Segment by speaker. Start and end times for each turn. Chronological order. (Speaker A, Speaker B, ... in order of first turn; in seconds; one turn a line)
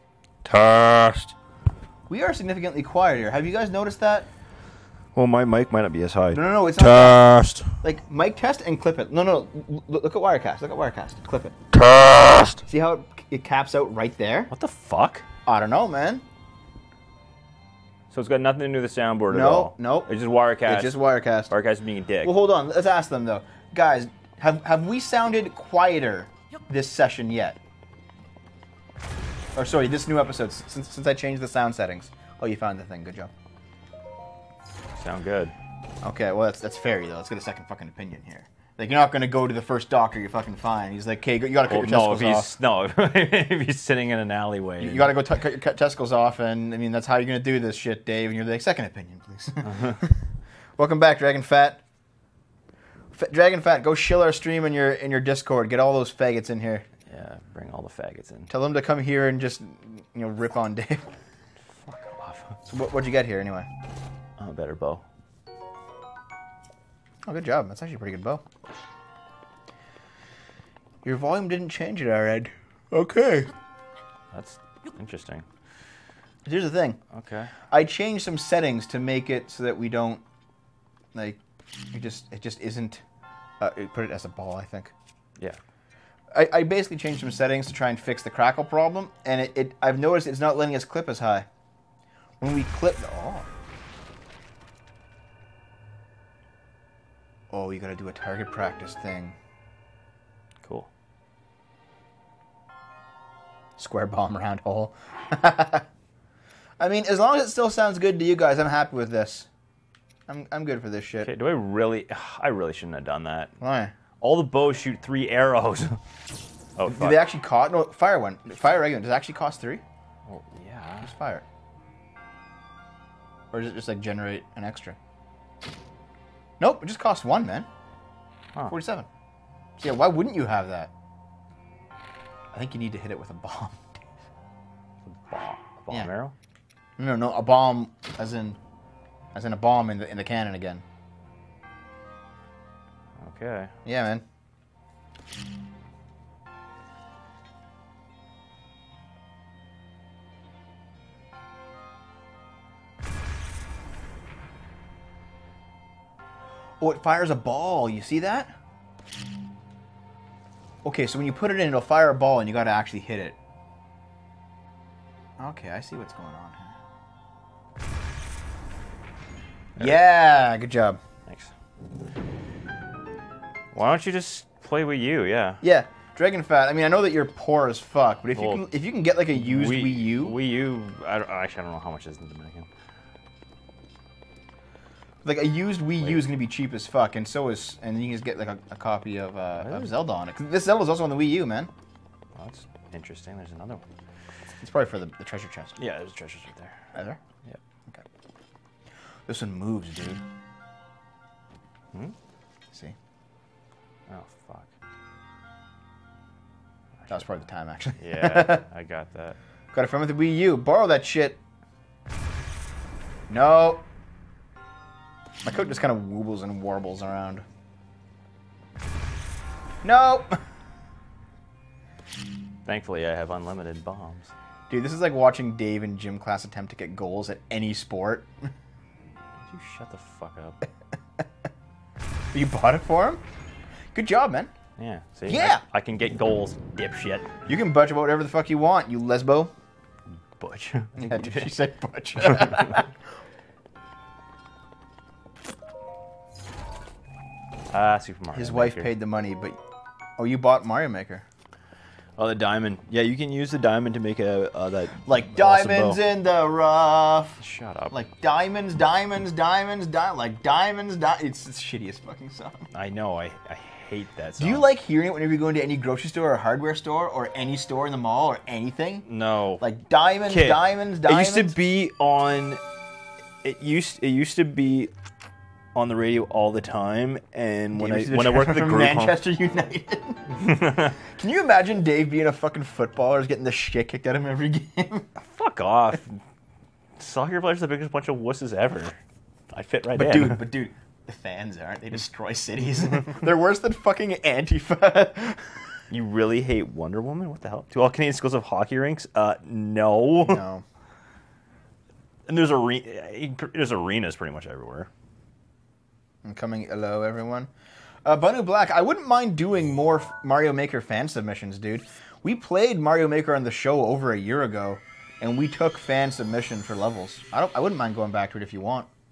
Speaker A: 0.4-1.3
Speaker B: 2.1-4.3
Speaker C: 5.1-6.4
Speaker B: 6.3-11.6
Speaker A: 6.8-7.8
Speaker A: 11.7-12.6
Speaker B: 12.6-14.5
Speaker C: 14.5-15.2
Speaker B: 15.4-16.2
Speaker C: 18.1-22.3
Speaker B: 19.3-21.5
Speaker B: 22.2-27.6
Speaker B: 29.6-33.3
Speaker C: 34.9-35.5
Speaker B: 36.0-42.5
Speaker C: 41.6-45.1
Speaker B: 44.8-50.2
Speaker B: 50.8-51.8
Speaker B: 53.1-56.9
Speaker C: 57.1-58.5
Speaker B: 58.5-61.2
Speaker C: 61.8-62.6
Speaker B: 62.6-63.7
Speaker C: 64.4-65.0
Speaker B: 67.2-68.4
Speaker B: 71.0-73.5
Speaker C: 74.3-75.5
Speaker B: 76.4-77.0
Speaker C: 77.1-77.5
Speaker B: 77.7-80.2
Speaker B: 81.1-81.4
Speaker B: 81.9-83.0
Speaker B: 83.6-84.9
Speaker B: 86.3-91.5
Speaker B: 92.4-93.5
Speaker B: 97.5-99.4
Speaker C: 100.6-100.9
Speaker B: 103.8-105.8
Speaker B: 106.8-109.5
Speaker B: 110.3-111.3
Speaker C: 111.2-113.5
Speaker B: 113.6-113.9
Speaker C: 114.2-116.0
Speaker C: 116.8-117.2
Speaker B: 116.8-119.8
Speaker C: 120.2-121.1
Speaker B: 121.0-121.4
Speaker B: 123.5-125.0
Speaker B: 126.6-127.7
Speaker B: 128.7-129.1
Speaker B: 129.8-130.9
Speaker B: 132.5-134.2
Speaker C: 135.1-136.3
Speaker B: 137.0-138.6
Speaker B: 139.3-140.8
Speaker C: 143.2-143.7
Speaker B: 143.8-144.2
Speaker B: 156.8-158.6
Speaker B: 160.8-163.4
Speaker B: 165.4-166.8
Speaker B: 169.8-171.0
Speaker C: 171.3-171.5
Speaker C: 173.7-175.6
Speaker B: 175.6-180.3
Speaker C: 178.3-178.6
Speaker C: 179.3-182.7
Speaker B: 185.2-191.7
Speaker C: 189.6-189.9
Speaker C: 192.3-193.8
Speaker B: 194.6-195.8
Speaker C: 195.8-197.6
Speaker B: 196.9-197.2
Speaker B: 199.3-200.2
Speaker B: 202.7-202.9
Speaker C: 204.1-204.7
Speaker B: 207.1-208.6
Speaker C: 208.0-209.4
Speaker B: 209.7-211.4
Speaker B: 213.3-213.8
Speaker B: 215.4-217.4
Speaker B: 219.8-220.4
Speaker C: 222.6-224.3
Speaker B: 224.7-228.5
Speaker C: 229.4-230.6
Speaker B: 232.3-233.2
Speaker B: 233.9-234.5
Speaker C: 234.8-237.3
Speaker B: 235.3-235.6
Speaker B: 237.4-239.5
Speaker C: 240.3-241.5
Speaker B: 241.0-242.9
Speaker C: 242.5-242.8
Speaker C: 247.7-248.9
Speaker B: 248.3-249.6
Speaker B: 250.2-251.2
Speaker C: 252.2-256.0
Speaker B: 255.0-262.7
Speaker C: 257.4-258.0
Speaker C: 262.7-264.7
Speaker B: 264.4-269.0
Speaker C: 269.1-269.6
Speaker B: 269.6-271.6
Speaker C: 270.3-272.6
Speaker C: 273.4-274.9
Speaker C: 275.7-279.2
Speaker B: 277.8-280.4
Speaker C: 280.4-281.0
Speaker B: 281.0-285.1
Speaker C: 285.1-286.2
Speaker C: 287.0-289.0
Speaker C: 289.5-290.4
Speaker B: 289.9-295.7
Speaker C: 295.9-300.4
Speaker B: 300.2-300.6
Speaker C: 302.3-304.9
Speaker B: 306.2-307.5
Speaker B: 308.0-318.9